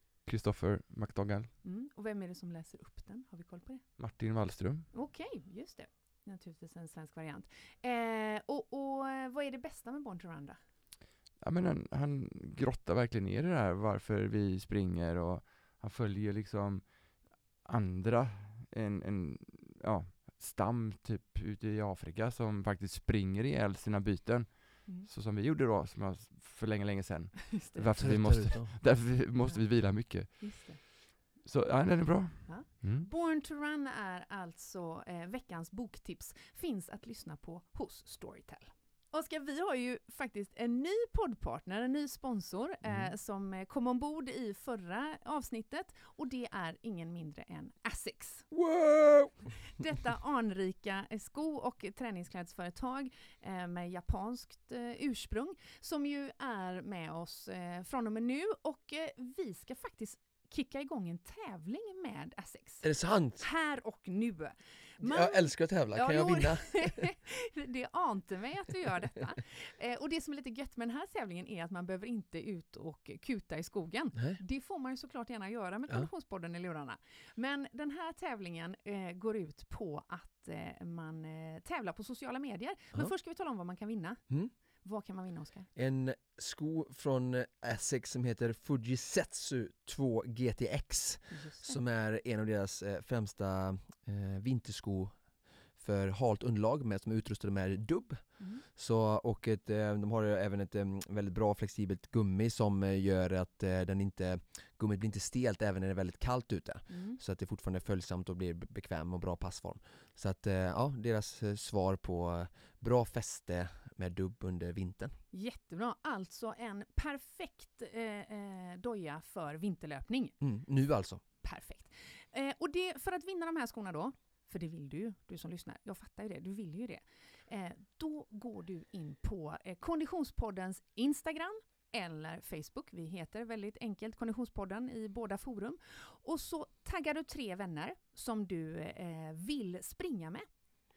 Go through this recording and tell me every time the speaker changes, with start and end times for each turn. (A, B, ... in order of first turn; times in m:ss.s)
0:00.3-0:01.5 A
0:01.6-0:04.2 B
0:04.0-0:04.9 A
0:04.9-0:10.6 B
0:11.4-0:33.1 A
0:27.5-0:28.1 B
0:28.0-0:28.7 C
0:29.4-0:30.8 B
0:32.5-0:48.5 B
0:42.8-0:43.1 C
0:48.5-0:49.6 C
0:49.8-1:25.7 B
1:02.8-1:03.5 C
1:05.0-1:07.1 C
1:14.2-1:14.4 C
1:25.8-1:55.2 C
1:31.3-1:31.8 B
1:38.4-1:38.6 B
1:46.9-1:47.2 B
1:55.3-2:00.4 B
2:00.4-2:01.2 C
2:01.4-2:20.5 B